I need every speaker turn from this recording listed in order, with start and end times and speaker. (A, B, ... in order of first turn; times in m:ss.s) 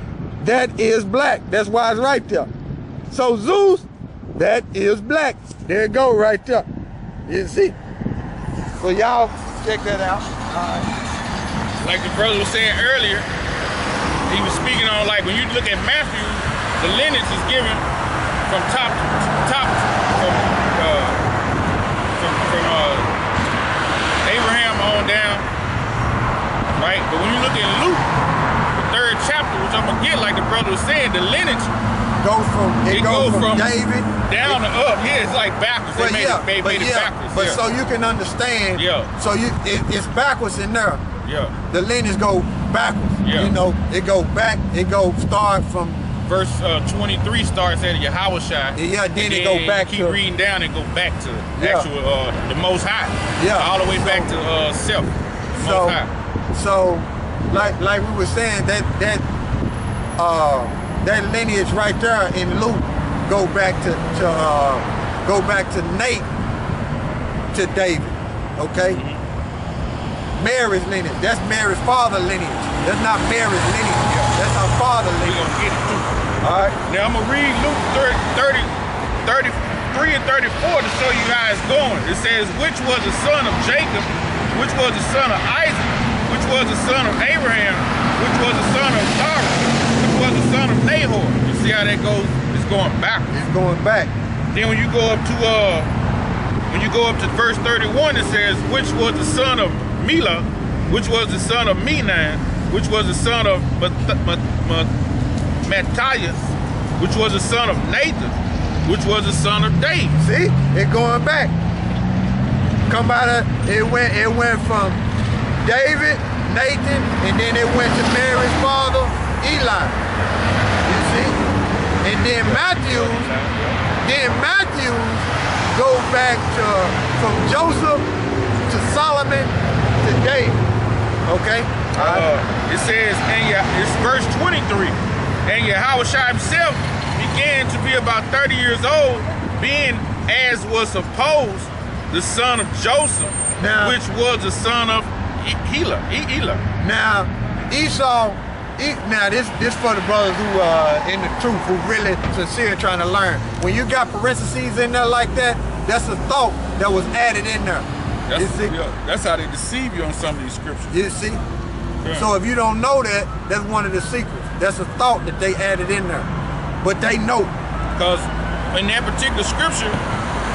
0:00.4-0:02.5 A
0:03.1-0:06.7 A
0:07.3-0:07.8 A
0:08.8-0:10.9 A
0:11.8-0:13.3 B
0:14.3-0:17.8 B
0:18.5-0:21.2 B
0:22.2-0:23.1 B
0:24.2-0:25.4 B
0:26.8-0:28.1 B
0:28.7-0:31.7 B
0:32.2-0:34.6 A
0:32.9-0:33.7 B
0:34.3-0:37.6 B
0:35.9-0:41.0 A
0:38.7-0:39.1 B
0:41.2-0:41.5 B
0:41.7-0:46.1 A
0:43.2-0:43.5 B
0:46.2-0:56.1 B
0:48.7-0:50.2 A
0:51.6-0:51.9 A
0:53.4-0:54.3 A
0:55.5-0:56.0 A
0:56.5-0:59.2 A
1:00.2-1:06.3 A
1:07.5-1:09.0 A
1:08.9-1:09.2 B
1:10.4-1:15.5 A
1:14.1-1:14.3 B
1:15.2-1:16.1 B
1:16.4-1:16.8 A
1:16.8-1:33.3 B
1:33.3-1:34.1 A
1:34.5-1:35.9 B
1:36.7-1:44.9 B
1:45.6-1:48.3 B
1:48.8-1:50.2 B
1:50.2-1:51.5 A
1:52.9-1:55.0 A
1:55.6-2:00.0 A
2:00.8-2:01.4 A
2:02.0-2:03.3 A
2:02.4-2:03.8 B
2:04.0-2:08.1 A
2:08.6-2:10.6 A
2:11.2-2:12.2 A
2:11.9-2:26.6 B
2:23.6-2:24.0 A
2:26.8-2:38.7 A
2:38.3-2:41.0 B
2:40.9-2:41.4 A
2:42.0-2:42.3 B
2:42.1-2:46.3 A
2:46.8-2:47.5 A
2:48.0-2:50.0 B